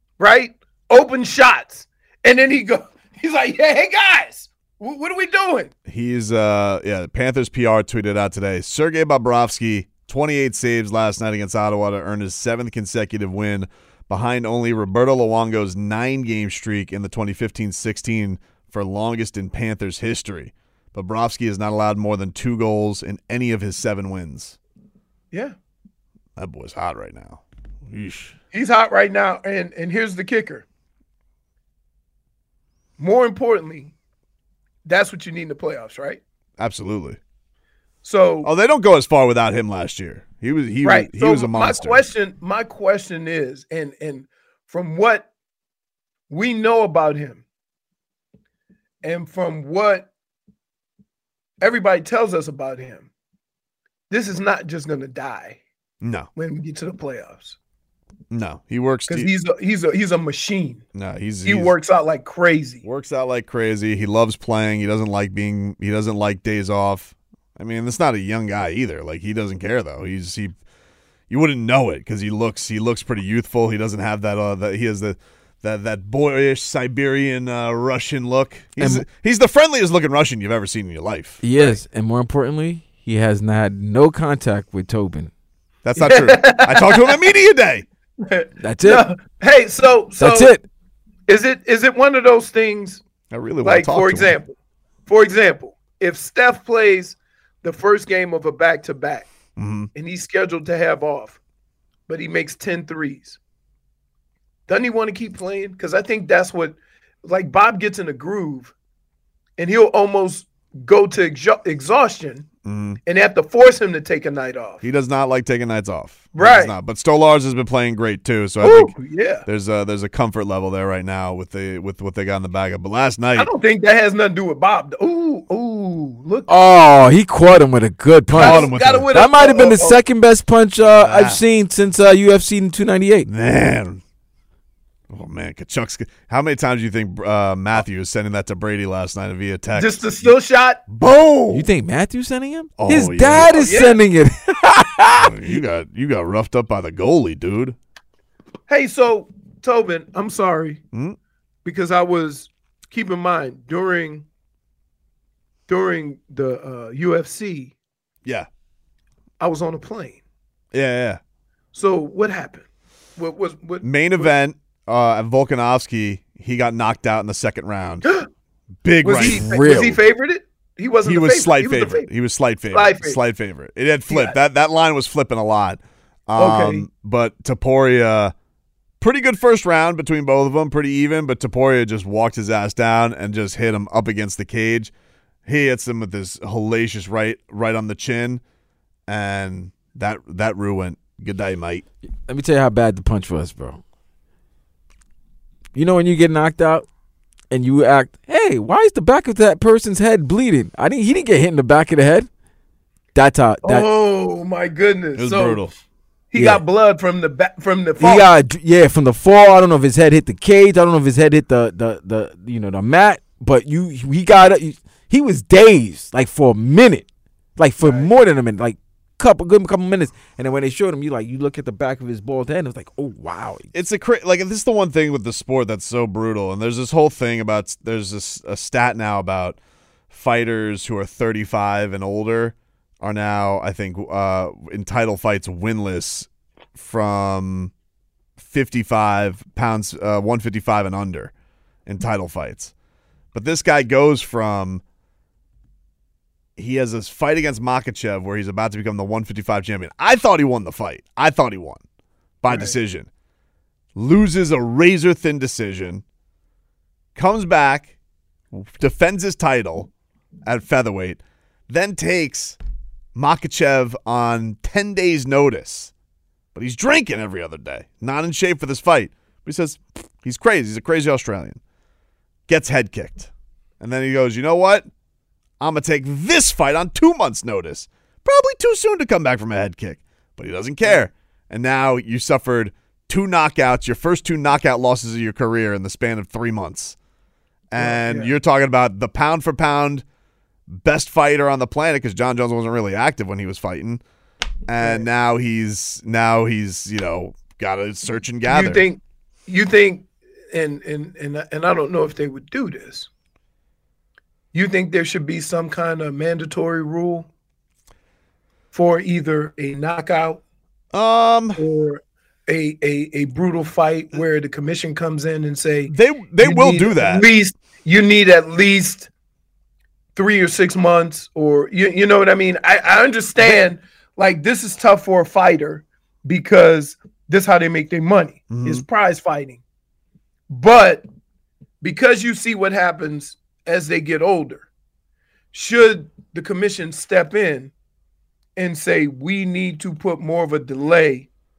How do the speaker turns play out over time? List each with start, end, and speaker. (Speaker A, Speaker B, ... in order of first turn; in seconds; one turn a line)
Speaker A: 0.2-5.7
Speaker B: 5.9-24.6
Speaker B: 26.4-28.4
Speaker A: 28.5-30.6
Speaker A: 33.0-33.9
Speaker A: 34.8-36.2
Speaker B: 36.6-37.2
Speaker A: 38.0-38.5
Speaker B: 38.4-42.0
Speaker A: 40.8-45.3
Speaker A: 46.3-47.4
Speaker A: 49.0-50.1
Speaker A: 51.6-53.1
Speaker A: 54.1-55.6
Speaker B: 56.0-56.3
Speaker A: 56.4-57.6
Speaker B: 58.3-59.3
Speaker A: 59.1-60.8
Speaker B: 60.9-61.7
Speaker A: 61.4-62.8
Speaker B: 62.8-70.5
Speaker B: 71.3-81.4
Speaker C: 78.8-79.0
Speaker C: 81.4-85.3
Speaker B: 85.8-87.8
Speaker A: 86.0-87.2
Speaker A: 88.2-90.5
Speaker C: 88.6-89.1
Speaker C: 90.2-90.7
Speaker A: 91.3-93.0
Speaker B: 93.3-94.3
Speaker A: 93.6-94.5
Speaker A: 95.1-99.3
Speaker B: 99.6-99.9
Speaker A: 99.9-101.4
Speaker A: 102.1-103.4
Speaker A: 104.7-108.7
Speaker A: 109.6-112.5
Speaker B: 112.6-113.0
Speaker A: 113.0-114.8
Speaker B: 114.8-123.5
Speaker A: 116.3-116.7
Speaker A: 118.6-119.4
Speaker A: 123.3-126.5
Speaker C: 126.5-133.3
Speaker B: 128.3-129.1
Speaker A: 128.3-130.0
Speaker B: 130.8-131.4
Speaker B: 133.3-134.0
Speaker B: 135.1-140.3
Speaker A: 139.8-140.8
Speaker B: 140.9-141.7
Speaker C: 141.5-145.6
Speaker B: 142.8-143.8
Speaker A: 143.6-144.0
Speaker B: 145.2-147.8
Speaker A: 148.7-150.8
Speaker A: 151.6-154.2
Speaker A: 155.7-157.7
Speaker A: 159.4-160.2
Speaker B: 160.7-161.2
Speaker A: 161.7-162.7
Speaker A: 163.2-164.3
Speaker B: 163.8-168.1
Speaker B: 168.8-170.0
Speaker A: 169.0-172.1
Speaker C: 169.2-169.9
Speaker B: 171.0-178.3
Speaker A: 172.7-173.2
Speaker A: 174.1-174.4
Speaker A: 176.4-176.8
Speaker B: 179.0-184.9
Speaker B: 185.4-188.4
Speaker B: 189.1-191.8
Speaker C: 192.3-193.8
Speaker C: 195.7-196.8
Speaker C: 197.5-202.3
Speaker C: 203.1-203.9
Speaker A: 203.6-205.6
Speaker B: 205.2-205.7
Speaker A: 206.3-208.3
Speaker C: 206.3-206.6
Speaker C: 208.0-217.1
Speaker C: 217.6-223.7
Speaker A: 217.8-218.1
Speaker B: 223.7-229.6
Speaker B: 230.1-237.7
Speaker B: 238.4-241.3
Speaker B: 241.8-242.7
Speaker B: 243.3-244.8
Speaker B: 246.6-251.8
Speaker B: 252.4-253.1
Speaker A: 252.5-252.7
Speaker B: 253.9-256.0
Speaker B: 257.1-257.9
Speaker B: 258.5-259.9
Speaker B: 260.4-262.6
Speaker B: 263.1-265.9
Speaker B: 266.5-271.6
Speaker B: 272.5-274.9
Speaker B: 275.6-286.9
Speaker B: 287.7-290.0
Speaker A: 287.8-288.3
Speaker B: 290.7-294.0
Speaker B: 294.7-298.9
Speaker A: 294.8-295.1
Speaker A: 298.5-303.1
Speaker A: 304.5-307.3
Speaker A: 308.7-310.4
Speaker B: 310.9-311.6
Speaker A: 311.6-319.1
Speaker B: 315.9-317.2
Speaker A: 320.1-329.6
Speaker B: 328.5-328.8
Speaker A: 330.5-331.1
Speaker A: 331.8-334.7
Speaker A: 335.5-337.7
Speaker A: 338.6-341.3